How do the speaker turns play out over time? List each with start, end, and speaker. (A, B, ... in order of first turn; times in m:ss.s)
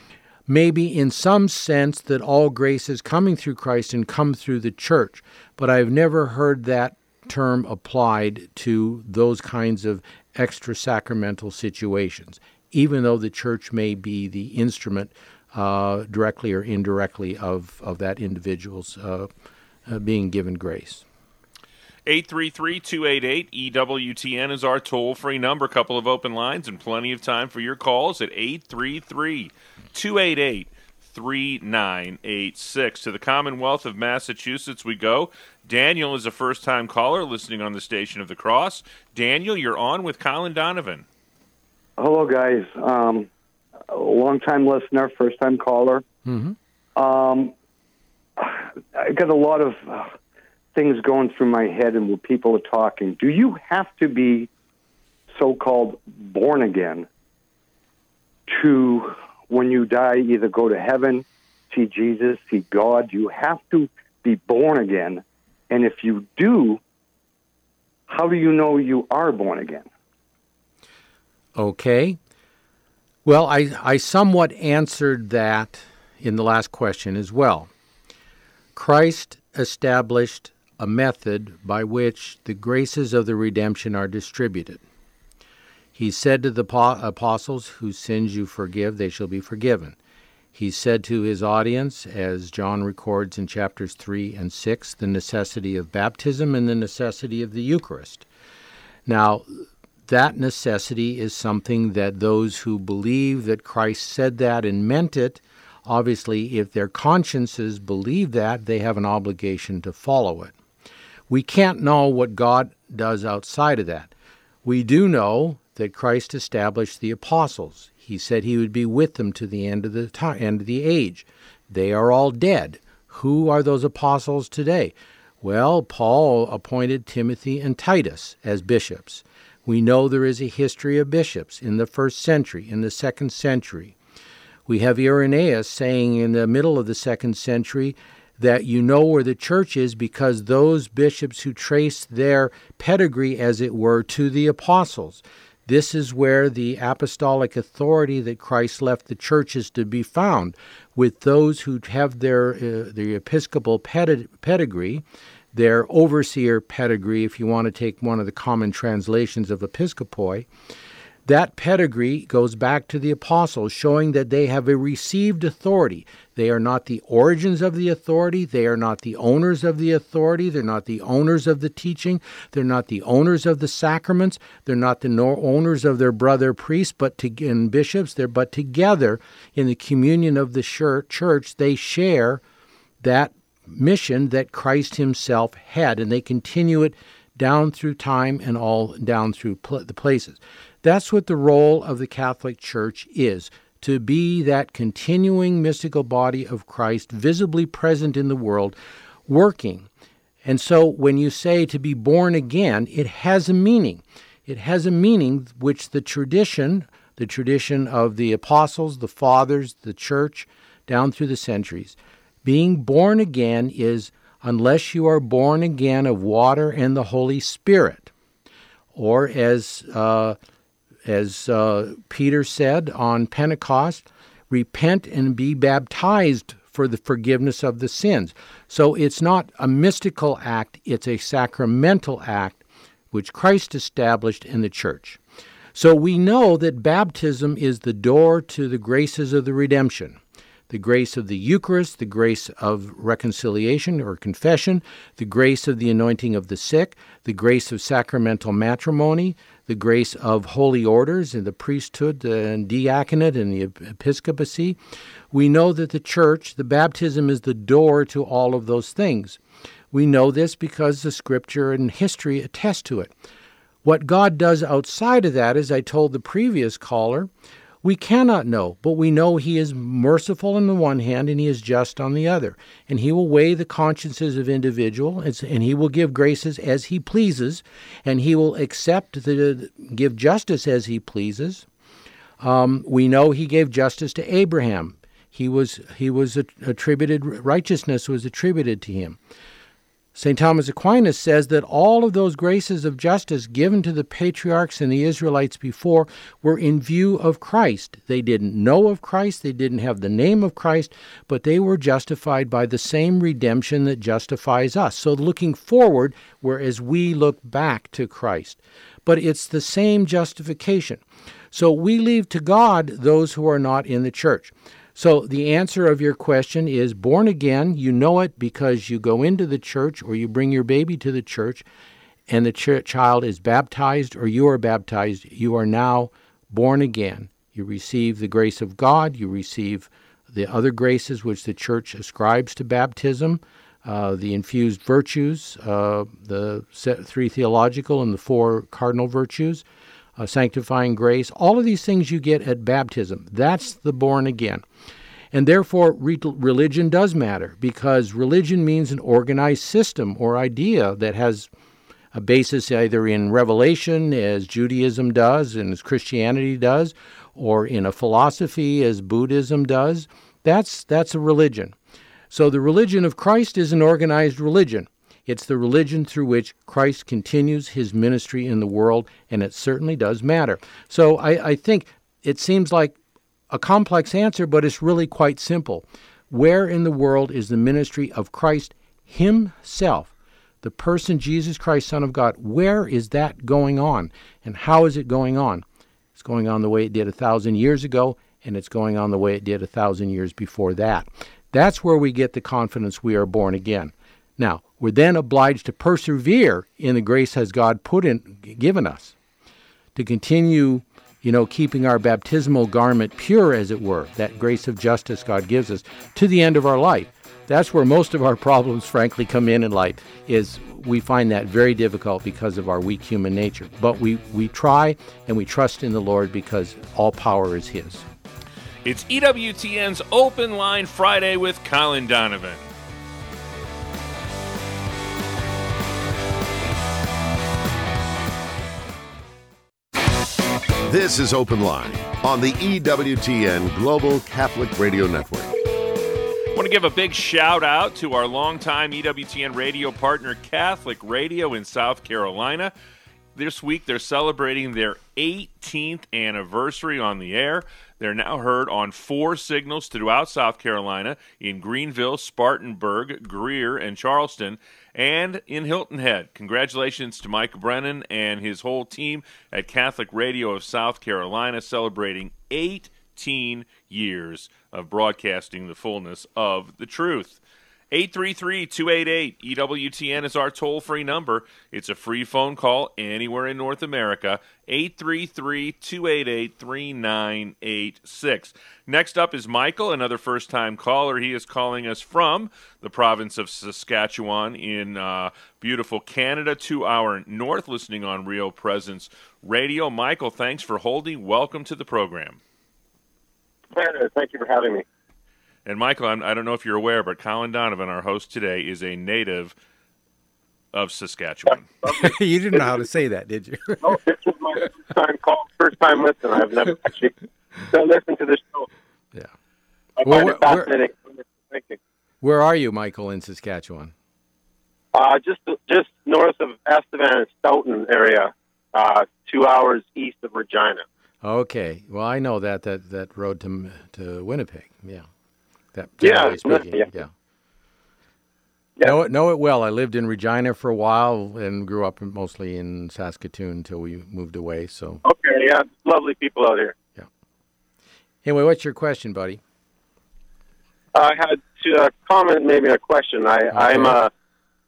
0:00.5-0:19.3 A
0:19.9-0:21.0 A
0:22.0-0:41.0 B
0:42.0-0:43.3 C
0:43.9-0:46.0 C
0:46.2-0:46.6 A
0:47.0-0:47.5 C
0:48.4-0:50.1 C
0:50.7-0:54.5 C
0:55.3-0:57.1 C
0:58.5-1:06.8 C
1:08.1-1:09.9 C
1:11.6-1:12.2 A
1:13.2-1:17.7 A
1:18.7-1:24.8 A
1:25.9-1:30.0 A
1:30.5-1:38.2 A
1:39.1-1:50.5 A
1:51.3-1:54.1 A
1:54.6-2:14.0 A
2:14.7-2:40.5 A
2:41.2-3:02.4 A
3:03.0-3:18.8 A
3:19.3-3:19.9 A
3:20.4-3:38.1 A
3:38.9-3:40.4 A
3:41.0-3:55.2 A
3:55.7-4:14.8 A
4:15.3-4:19.4 A
4:19.9-4:23.1 A
4:23.8-4:27.3 A
4:27.8-4:41.6 A
4:42.4-4:49.2 A
4:50.1-5:21.6 A
5:22.3-5:39.6 A
5:40.2-5:44.6 A
5:45.3-5:51.5 A
5:52.1-6:01.8 A
6:02.3-6:13.0 A
6:13.5-6:39.1 A
6:39.9-6:58.0 A
6:58.8-7:02.7 B
7:10.8-7:15.6 D
7:16.5-7:22.7 B
7:23.3-8:12.4 B
8:13.7-8:14.8 E
8:15.6-8:19.5 B
8:20.7-8:21.6 B
8:21.8-8:24.0 A
8:23.8-8:28.7 E
8:30.0-8:31.8 E
8:30.0-8:30.7 A
8:32.2-8:33.9 A
8:34.9-8:40.8 E
8:41.2-8:45.0 A
8:45.7-8:47.1 A
8:46.0-8:46.9 E
8:48.8-8:55.0 A
8:55.0-8:56.7 E
8:58.2-8:59.4 A
9:00.9-9:04.1 E
9:03.5-9:04.0 A